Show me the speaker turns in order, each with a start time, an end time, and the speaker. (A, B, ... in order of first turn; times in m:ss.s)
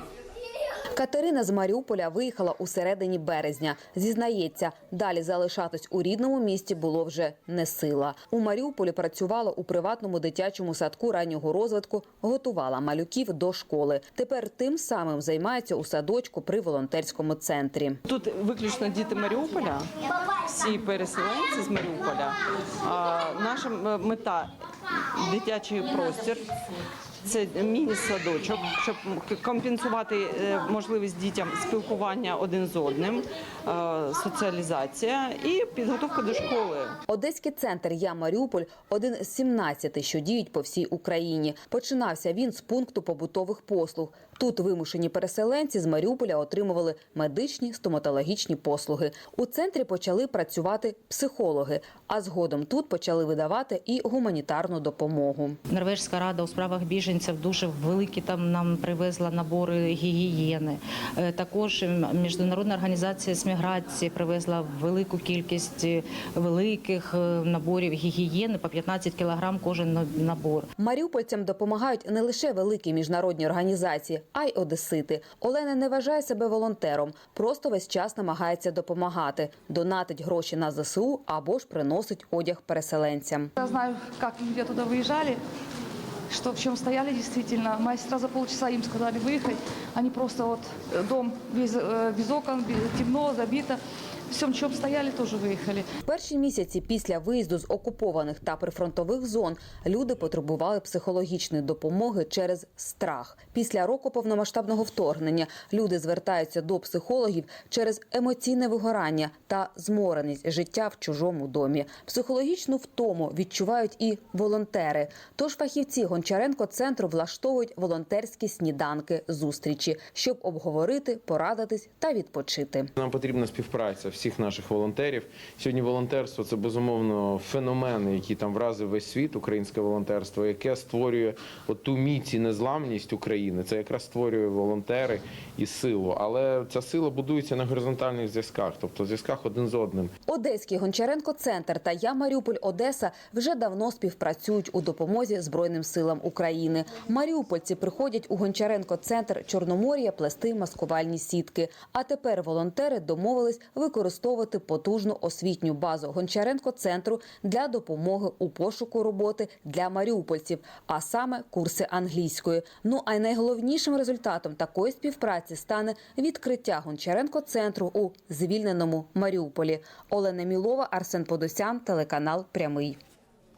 0:00.9-0:18.0 A
0:18.0-0:26.5 B
0:27.2-0:37.0 B
0:37.1-0:55.6 A
0:55.7-1:10.7 C
1:10.8-1:23.5 A
1:23.6-1:25.4 D
1:26.3-1:35.9 D
1:36.0-2:02.9 A
2:03.0-2:20.1 E
2:20.3-2:53.0 A